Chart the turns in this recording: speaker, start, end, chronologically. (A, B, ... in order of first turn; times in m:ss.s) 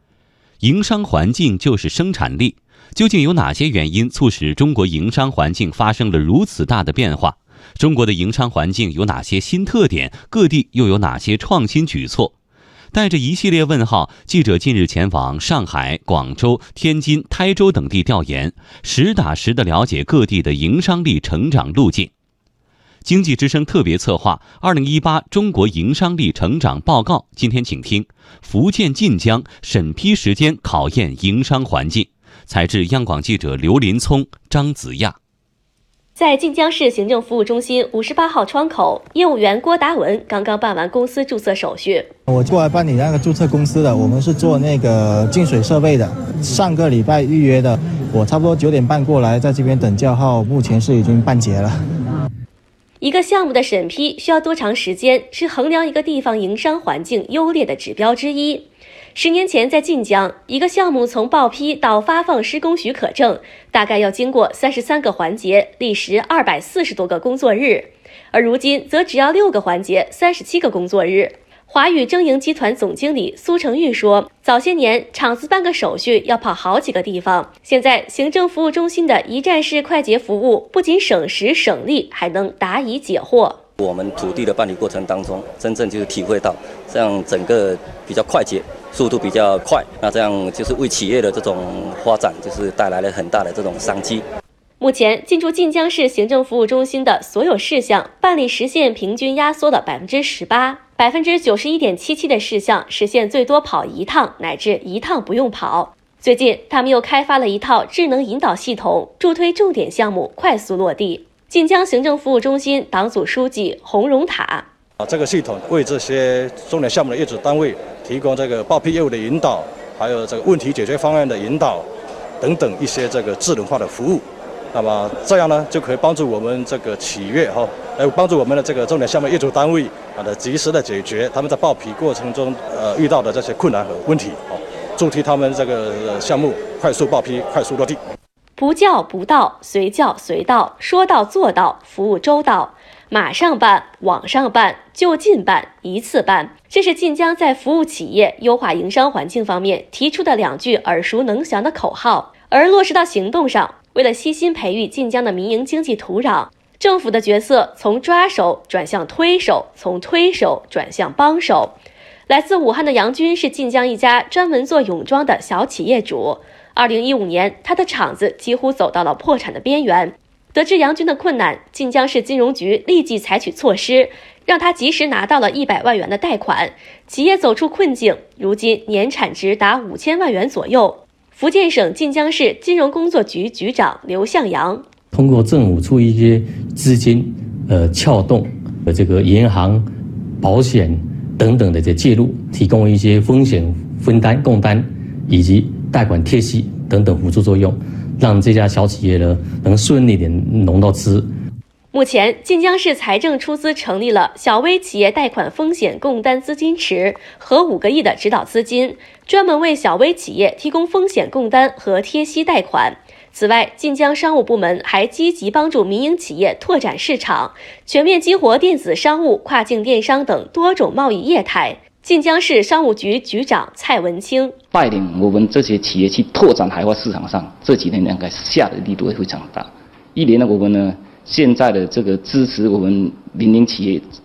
0:00.6-0:12.3 A
0:12.9-0:22.1 A
0:23.0-0:35.2 A
0:36.2-0:42.1 B
0:42.3-0:51.8 C
0:53.0-1:23.6 B
1:23.8-1:34.2 D
1:34.8-1:54.7 B
1:55.0-2:01.8 E
2:02.4-2:18.0 E
2:18.6-2:41.7 B
2:42.3-3:04.8 B
3:05.1-3:09.8 F
3:10.4-3:21.3 F
3:21.9-3:44.5 B
3:44.7-3:54.0 G